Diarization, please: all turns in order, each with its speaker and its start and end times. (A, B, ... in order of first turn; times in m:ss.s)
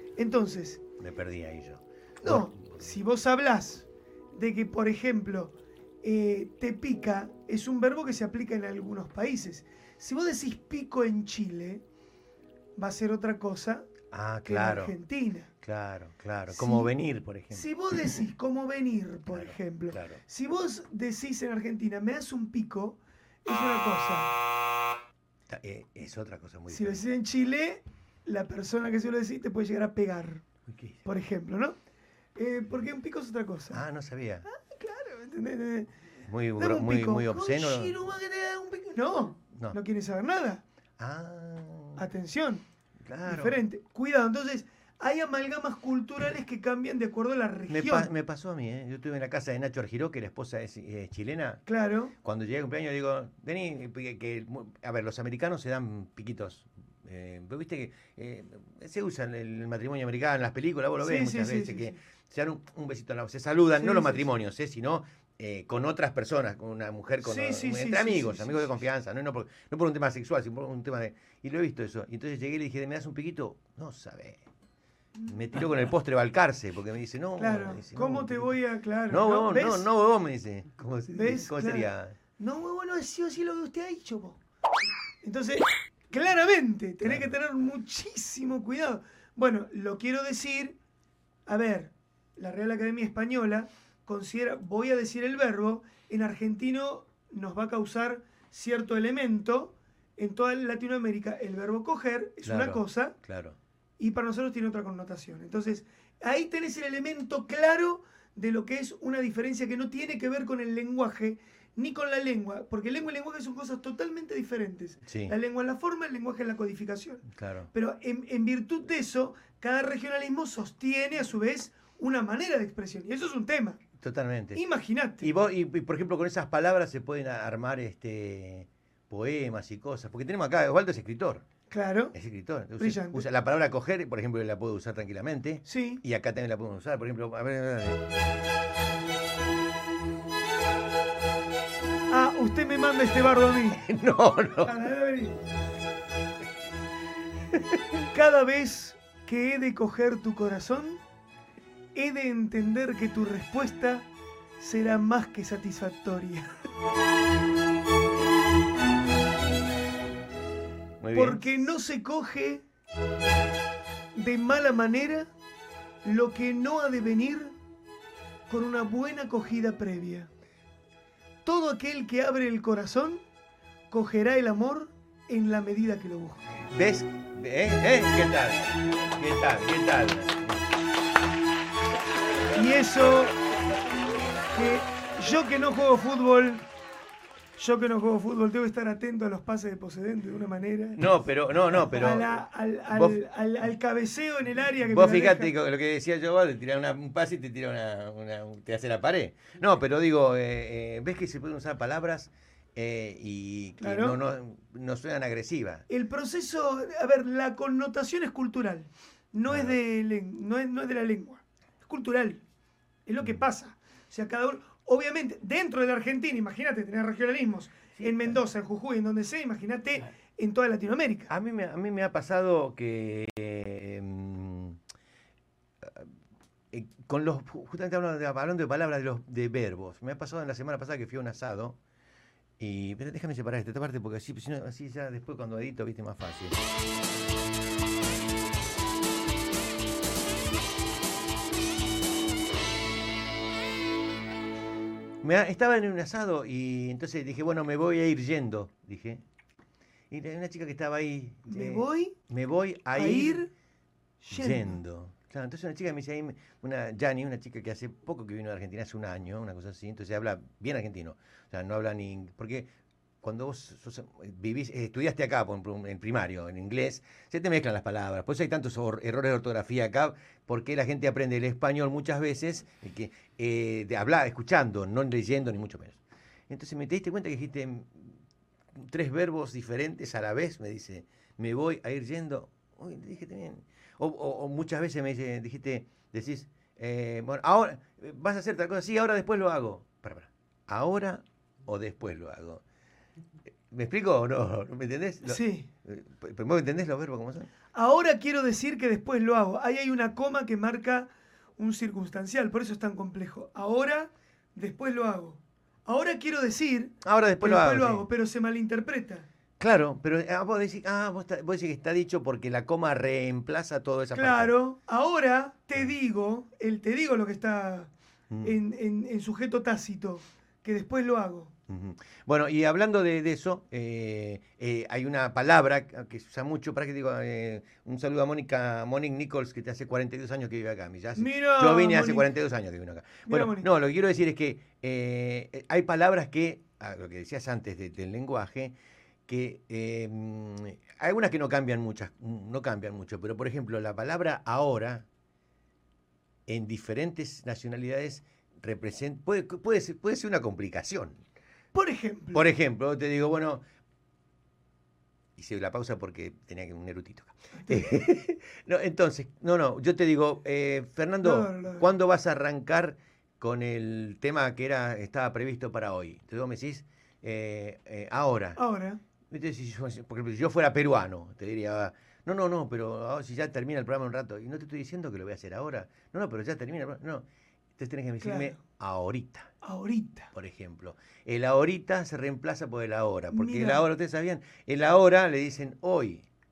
0:00.2-0:00.8 A
0:01.0-0:03.0 B
0:02.2-0:11.8 A
0:12.8-0:13.9 A
0:14.1-0:15.0 B
0:14.5-0:15.5 A
0:15.6-0:18.2 B
0:16.5-0:16.9 A
0:17.5-0:24.3 A
0:19.3-0:20.2 B
0:25.5-0:27.0 B
0:26.7-0:30.4 A
0:30.7-0:31.0 B
0:31.0-0:31.8 A
0:32.4-0:33.8 A
0:33.7-0:34.5 B
0:34.4-0:35.9 A
0:36.3-0:38.0 B
0:36.6-0:40.6 A
0:41.0-0:42.0 B
0:42.0-0:42.6 A
0:43.0-0:43.6 B
0:43.2-0:48.1 A
0:47.7-0:51.6 B
0:51.7-0:52.1 A
0:52.2-1:14.4 B
1:01.0-1:02.0 A
1:03.8-1:04.3 A
1:07.2-1:08.8 A
1:15.2-1:15.6 A
1:15.3-1:22.2 B
1:17.4-1:19.9 A
1:21.1-1:24.4 A
1:25.2-1:30.8 A
1:27.0-1:27.4 B
1:31.5-1:43.2 A
1:42.4-1:43.6 B
1:44.0-2:03.8 A
1:55.0-1:55.3 B
1:57.3-1:57.7 B
2:04.0-2:04.6 B
2:04.5-2:05.3 A
2:05.2-2:11.4 B
2:11.7-2:12.2 A
2:12.1-2:18.0 B
2:12.8-2:13.3 A
2:15.6-2:16.0 A
2:22.1-2:23.8 A
2:23.7-2:24.9 B
2:24.6-2:25.4 A
2:28.1-2:31.0 A
2:32.0-2:34.1 A
2:34.6-2:36.6 A
2:41.0-2:41.5 B
2:41.1-2:42.7 A
2:44.2-2:45.3 A
2:46.0-2:47.6 A
2:48.5-2:50.3 A
2:51.4-2:53.2 A
2:53.9-2:56.4 A
2:56.7-3:00.7 B
3:02.5-3:03.4 A
3:04.5-3:06.7 A
3:07.6-3:11.0 A
3:11.0-3:13.2 B
3:11.7-3:15.5 A
3:14.8-3:25.8 B
3:23.8-3:24.2 A
3:25.9-3:32.4 A
3:29.5-3:29.8 B
3:33.1-3:41.3 A
3:38.0-3:38.4 B
3:41.3-3:44.8 B
3:45.8-3:46.1 B
3:46.7-3:51.8 B
3:52.6-3:56.6 B
4:05.2-4:09.2 B
4:10.1-4:13.4 B
4:11.5-4:12.2 A
4:12.9-4:13.5 A
4:14.2-4:14.8 A
4:14.3-4:38.2 B
4:38.8-4:52.6 B
4:53.7-4:57.5 B
4:55.2-4:55.7 A
4:57.7-5:09.3 A
5:07.0-5:08.0 B
5:09.6-5:14.6 B
5:14.1-5:17.9 A
5:18.3-5:18.6 B
5:18.4-5:21.5 A
5:21.7-5:38.8 B
5:31.2-5:32.3 A
5:33.3-5:33.7 A
5:39.3-5:45.1 B
5:46.5-5:51.2 B
5:51.7-5:52.4 A
5:52.3-5:53.6 B
5:55.4-6:08.6 B
6:01.2-6:01.9 A
6:08.6-6:09.0 A
6:09.3-6:17.3 B
6:17.8-6:19.5 B
6:18.2-6:18.6 A
6:19.6-6:20.3 A
6:20.3-6:26.3 B
6:23.3-6:23.9 A